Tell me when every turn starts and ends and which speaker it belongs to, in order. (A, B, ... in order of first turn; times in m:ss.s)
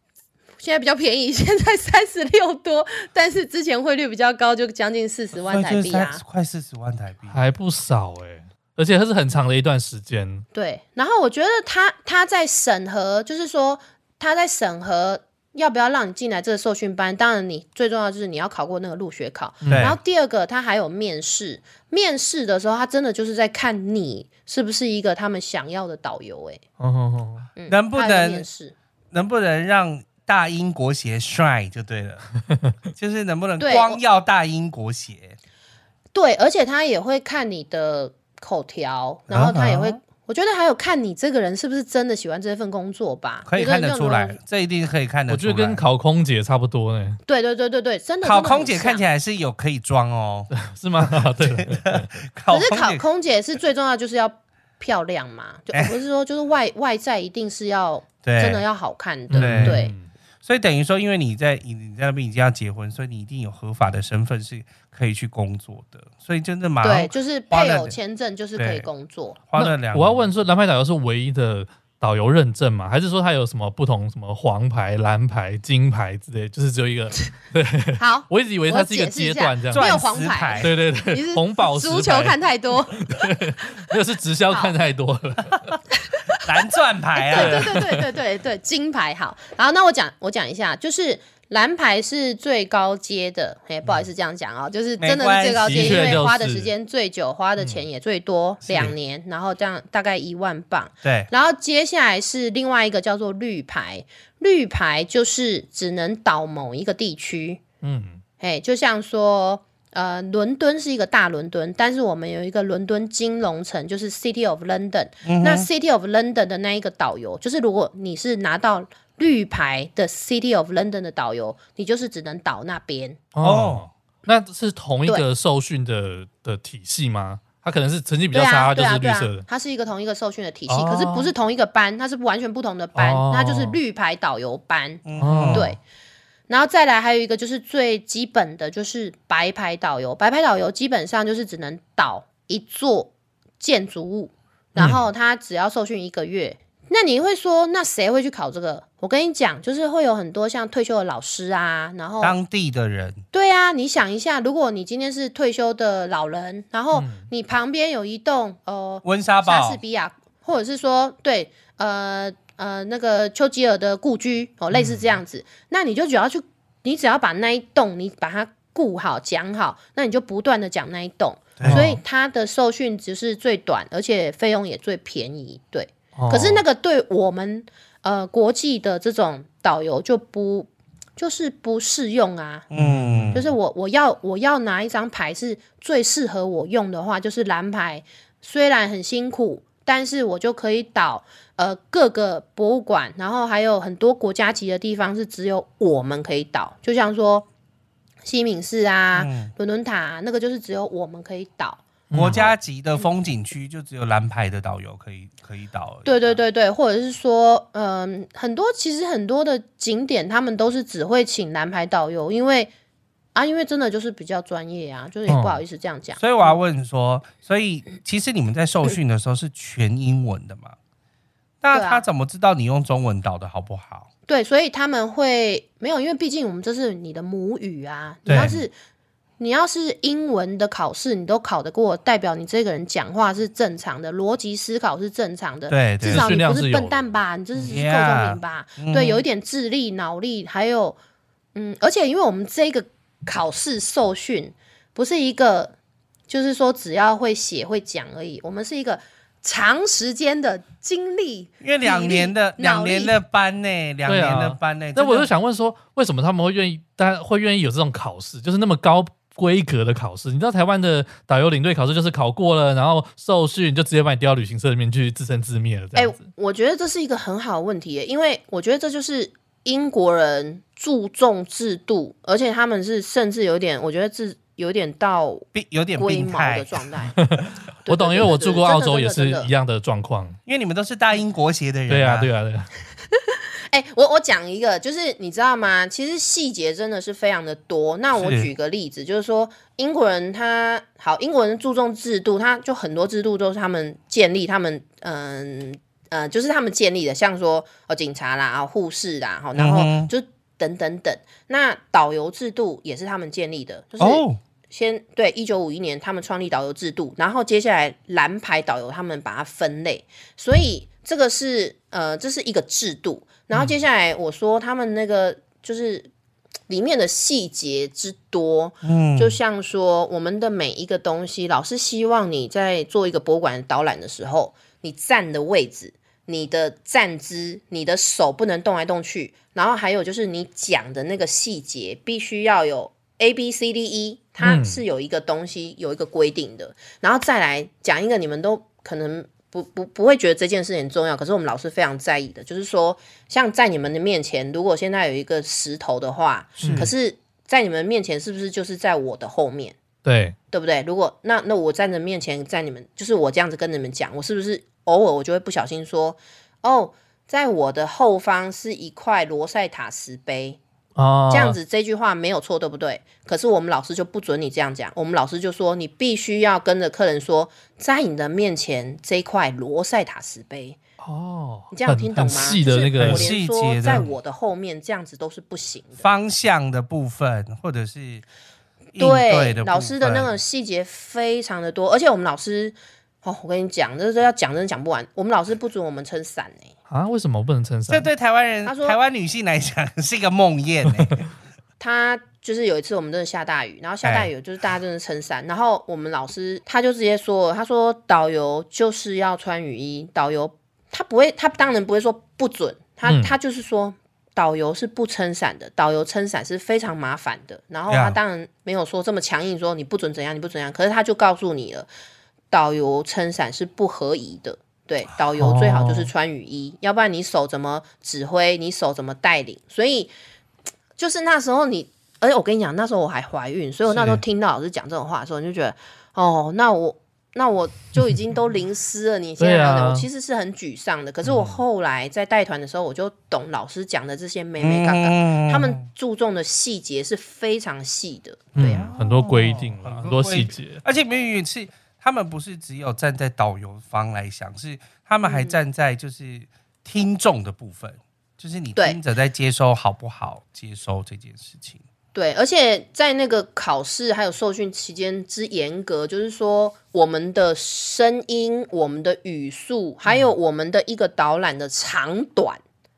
0:00.6-0:06.2 A
0:05.4-0:07.4 B
0:07.3-0:10.5 C
0:10.5-0:26.6 A
0:19.6-0:20.0 C
0:19.7-0:20.0 B
0:26.8-0:27.5 C
0:27.6-0:28.7 A
0:27.7-0:28.4 B
0:29.1-0:32.3 B
0:32.5-0:32.7 C
0:33.0-0:35.4 B
0:33.6-0:34.0 A
0:36.1-0:44.4 A
0:39.3-0:40.0 B
0:43.5-0:45.8 B
0:45.3-0:47.2 C
0:47.2-0:49.0 A
0:48.2-0:50.5 B
0:50.5-0:52.1 C
0:51.2-0:53.0 B
0:52.5-0:59.9 A
0:58.2-0:58.6 B
0:59.3-1:00.0 C
0:59.4-0:59.8 B
1:00.4-1:08.0 B
1:06.8-1:09.4 A
1:08.6-1:08.8 B
1:09.5-1:10.3 B
1:09.6-1:20.1 C
1:18.0-1:23.3 A
1:19.7-1:20.7 B
1:20.6-1:22.4 C
1:22.9-1:25.8 C
1:26.1-1:26.4 A
1:26.4-1:27.7 B
1:27.2-1:47.6 A
1:27.3-1:28.1 C
1:35.0-1:36.1 B
1:35.6-1:36.7 C
1:37.6-1:37.8 C
1:38.6-1:38.9 B
1:41.0-1:41.3 B
1:47.8-1:48.2 C
1:48.4-2:03.2 A
1:55.2-1:55.6 B
2:03.3-2:09.4 C
2:03.4-2:03.8 B
2:08.3-2:15.8 A
2:10.7-2:11.3 C
2:12.9-2:13.8 C
2:15.0-2:15.6 B
2:15.2-2:15.8 C
2:16.5-2:32.4 A
2:32.2-2:33.2 B
2:33.3-3:02.7 A
2:36.9-2:37.2 C
2:39.0-2:39.8 B
2:44.7-2:45.0 C
2:51.6-2:51.9 B
2:51.6-2:52.0 C
2:56.2-2:56.6 C
3:02.7-3:03.4 B
3:02.8-3:03.5 C
3:03.3-3:17.4 A
3:18.2-3:22.5 A
3:19.1-3:19.5 B
3:22.1-3:22.4 C
3:22.1-3:26.4 B
3:26.0-3:32.7 A
3:33.3-3:36.6 A
3:35.3-3:35.6 C
3:36.2-3:40.8 B
3:41.6-3:44.1 B
3:41.7-3:42.0 A
3:44.3-3:48.7 A
3:48.2-3:48.6 B
3:49.4-4:01.0 A
3:55.7-3:56.3 B
3:56.0-3:57.1 C
3:57.6-3:59.2 B
4:01.5-4:05.7 A
4:06.3-4:13.2 A
4:11.6-4:15.3 B
4:14.0-4:26.2 C
4:25.9-4:37.2 A
4:35.5-4:36.8 B
4:37.2-4:40.4 C
4:37.8-4:39.5 A
4:40.5-4:42.3 B
4:41.9-4:42.7 C
4:43.2-5:16.1 A
4:48.1-4:48.5 B
4:59.6-5:00.1 B
5:04.0-5:04.4 B
5:16.7-5:49.8 A
5:18.8-5:19.4 B
5:34.4-5:34.8 C
5:46.6-5:46.9 C
5:46.6-5:46.9 B
5:50.0-5:50.4 C
5:50.5-6:00.6 A
6:01.0-6:01.6 C
6:01.3-6:10.8 A
6:11.0-6:13.3 C
6:11.7-6:16.0 A
6:13.0-6:14.0 B
6:16.0-6:18.2 B
6:18.9-6:20.3 B
6:19.0-6:26.7 A
6:26.9-6:28.1 C
6:27.9-6:31.2 B
6:28.6-6:29.0 A
6:31.8-6:51.9 A
6:34.0-6:34.3 B
6:43.0-6:43.4 C
6:47.9-6:48.2 B
6:52.5-7:00.1 A
6:55.4-6:56.1 C
7:01.0-7:18.9 A
7:03.9-7:04.2 C
7:09.4-7:10.1 C
7:11.2-7:11.6 C
7:14.6-7:15.8 B
7:18.6-7:20.8 C
7:18.6-7:31.8 B
7:25.2-7:25.6 A
7:32.1-7:42.6 A